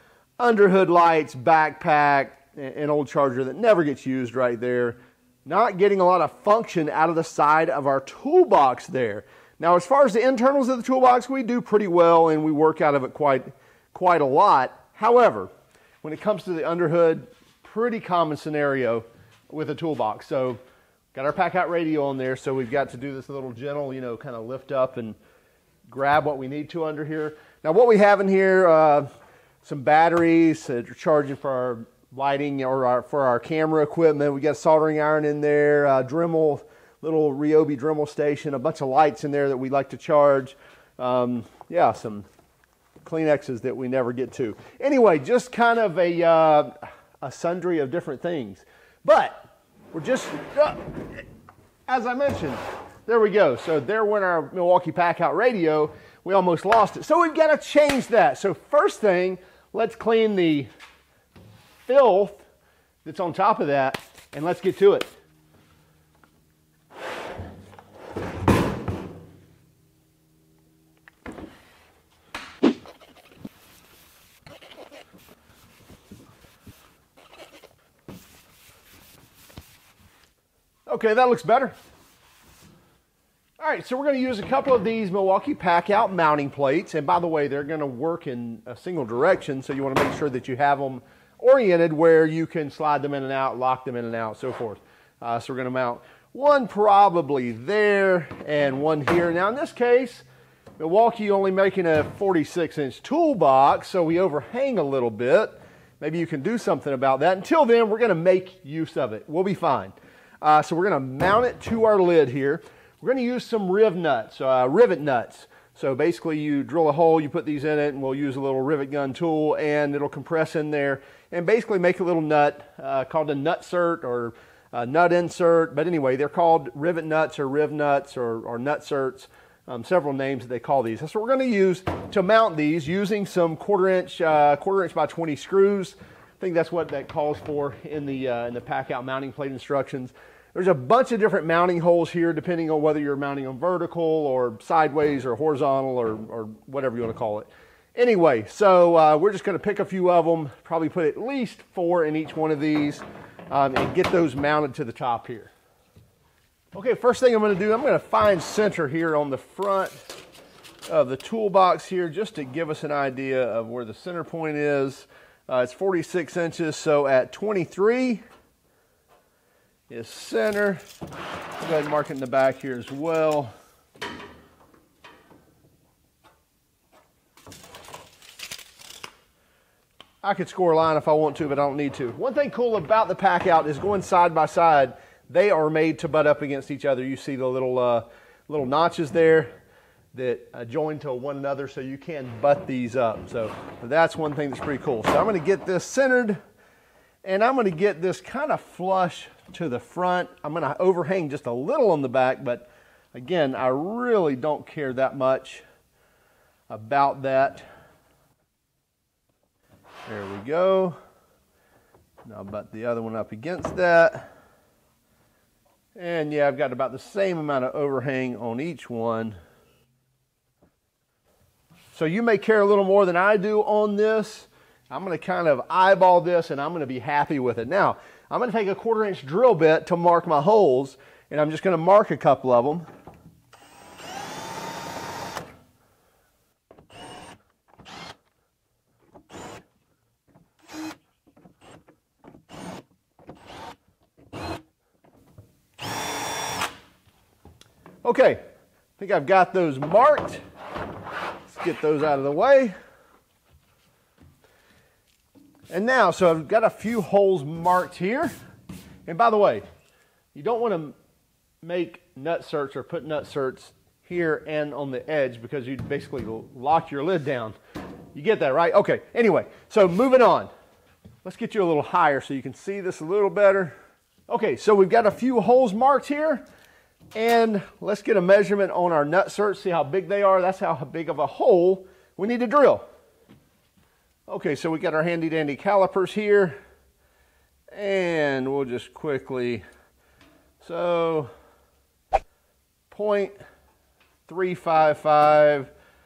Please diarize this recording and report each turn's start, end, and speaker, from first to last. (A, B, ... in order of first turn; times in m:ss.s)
0:00.4-0:15.5 A
0:16.0-0:20.6 A
0:21.1-0:25.2 A
0:25.9-0:29.1 A
0:29.6-0:42.3 A
0:43.0-0:51.2 A
0:51.9-1:00.7 A
1:01.8-1:02.4 A
1:03.0-1:05.1 A
1:20.9-1:21.7 A
1:23.6-1:40.3 A
1:40.8-2:35.5 A
2:36.7-2:40.1 A
2:40.9-2:48.2 A
2:49.9-2:50.8 A
2:51.6-2:53.5 A
3:00.2-3:09.5 A
3:10.1-3:16.4 A
3:17.2-3:25.6 A
3:26.7-3:27.6 A
3:30.0-3:31.0 A
3:32.2-3:34.3 A
3:36.0-3:39.4 A
3:41.9-3:52.8 A
4:08.0-4:08.4 A
4:09.0-4:10.4 A
4:11.5-4:12.7 A
4:15.7-4:18.3 A
4:19.0-4:19.6 A
4:20.3-4:20.9 A
4:21.6-4:27.5 A
4:28.1-4:30.5 A
4:31.2-4:33.8 A
4:34.3-4:36.4 A
4:37.1-4:42.8 A
4:44.3-4:46.6 A
4:47.7-4:49.6 A
4:50.6-4:51.3 A
4:52.9-4:53.4 A
4:54.3-4:55.7 A